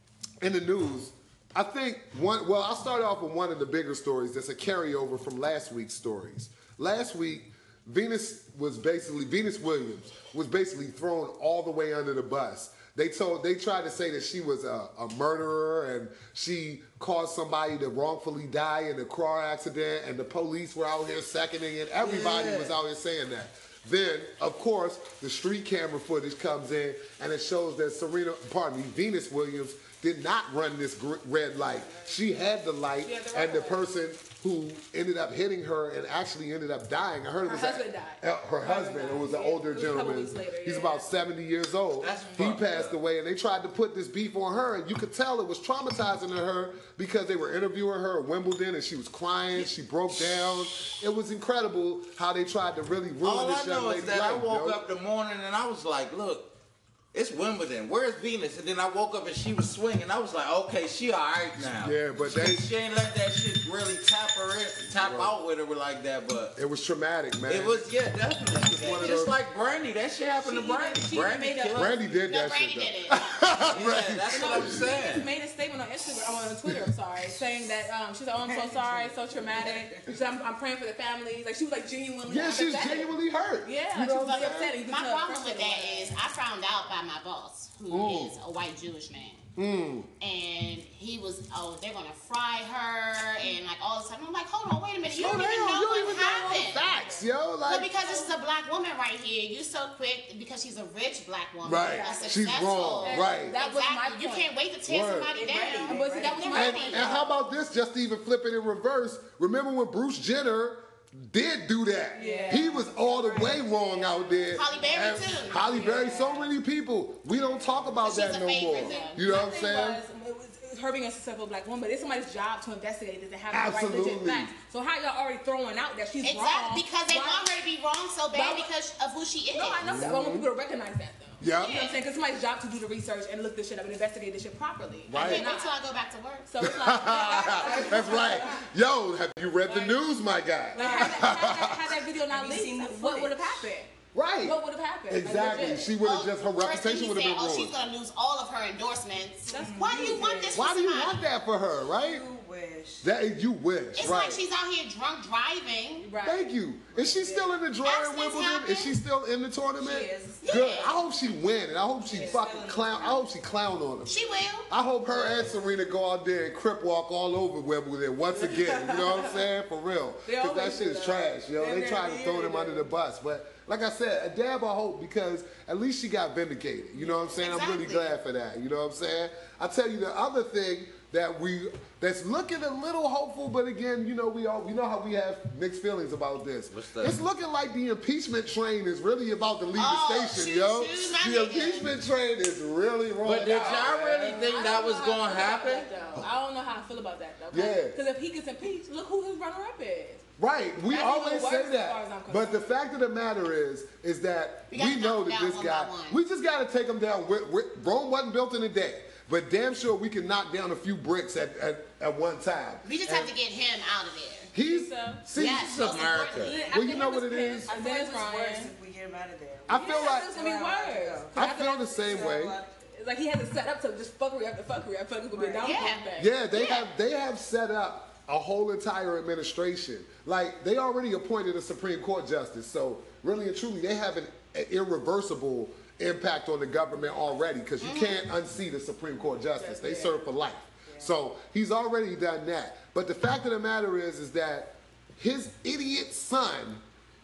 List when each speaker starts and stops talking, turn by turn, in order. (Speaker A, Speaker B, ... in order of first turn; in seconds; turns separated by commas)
Speaker A: 0.4-54.8, Speaker B: 22.0-22.7, Speaker C: 33.0-33.9, Speaker C: 37.4-41.1, Speaker B: 42.0-43.0, Speaker B: 53.2-56.5, Speaker B: 57.1-66.5, Speaker A: 61.6-62.7, Speaker A: 64.9-65.3, Speaker A: 66.5-67.8, Speaker B: 67.5-72.0, Speaker A: 68.5-69.3, Speaker D: 70.4-71.8, Speaker C: 70.6-71.7, Speaker A: 71.7-74.8, Speaker E: 72.2-73.4, Speaker B: 73.7-75.3, Speaker C: 74.3-86.2, Speaker D: 78.4-79.8, Speaker A: 82.3-84.7, Speaker E: 84.1-89.5, Speaker A: 87.9-88.4, Speaker A: 89.5-90.1, Speaker E: 90.2-97.0, Speaker A: 95.1-97.9, Speaker C: 96.9-97.2, Speaker E: 97.6-107.2, Speaker A: 101.6-103.6, Speaker C: 102.0-102.3, Speaker C: 103.0-104.5, Speaker A: 104.8-105.3, Speaker D: 105.3-106.7, Speaker C: 105.8-107.3, Speaker A: 106.5-120.0, Speaker C: 112.1-113.6, Speaker D: 112.2-114.8, Speaker E: 114.5-115.8, Speaker C: 115.5-116.5, Speaker D: 115.7-116.4, Speaker D: 117.5-118.0, Speaker E: 118.0-119.2, Speaker C: 118.7-127.5, Speaker A: 123.5-124.5, Speaker E: 126.2-129.9, Speaker C: 128.3-128.7, Speaker C: 129.5-135.8, Speaker A: 129.8-130.5, Speaker A: 131.4-131.8, Speaker E: 131.5-132.0, Speaker A: 135.1-135.6, Speaker E: 135.1-136.5, Speaker C: 136.5-138.6, Speaker A: 136.6-141.9, Speaker D: 137.5-138.4, Speaker D: 140.7-141.3, Speaker C: 140.7-145.9, Speaker D: 142.2-143.6, Speaker A: 144.1-147.8, Speaker E: 146.0-151.2, Speaker C: 149.5-150.3, Speaker D: 149.5-150.6, Speaker A: 150.5-152.2, Speaker D: 151.8-153.1, Speaker A: 153.0-154.4, Speaker E: 153.9-156.1, Speaker C: 156.0-156.5, Speaker A: 156.2-164.2, Speaker D: 157.0-157.6, Speaker E: 157.8-158.9, Speaker D: 159.8-160.7, Speaker E: 160.4-161.0, Speaker D: 162.0-163.3, Speaker C: 162.1-162.5, Speaker E: 164.1-164.7, Speaker A: 164.7-194.5, Speaker D: 165.1-165.6, Speaker D: 168.5-169.1, Speaker C: 170.2-172.9, Speaker E: 177.2-178.1, Speaker B: 186.7-187.2, Speaker E: 189.7-191.9, Speaker B: 193.2-195.9, Speaker C: 194.2-200.2, Speaker A: 197.5-198.0, Speaker A: 200.4-213.2, Speaker C: 200.8-202.7, Speaker E: 204.7-206.2, Speaker E: 212.8-214.5, Speaker A: 214.5-215.9, Speaker C: 214.6-215.2, Speaker B: 215.3-216.6, Speaker E: 215.3-216.8, Speaker C: 216.4-218.7, Speaker A: 216.7-217.7, Speaker D: 217.6-221.4, Speaker A: 219.7-220.3, Speaker C: 219.7-226.3, Speaker A: 221.3-222.6, Speaker D: 222.0-222.6, Speaker D: 225.3-225.8, Speaker E: 225.6-226.9, Speaker A: 226.2-246.8, Speaker E: 237.8-238.2, Speaker D: 239.6-240.1, Speaker D: 240.8-241.1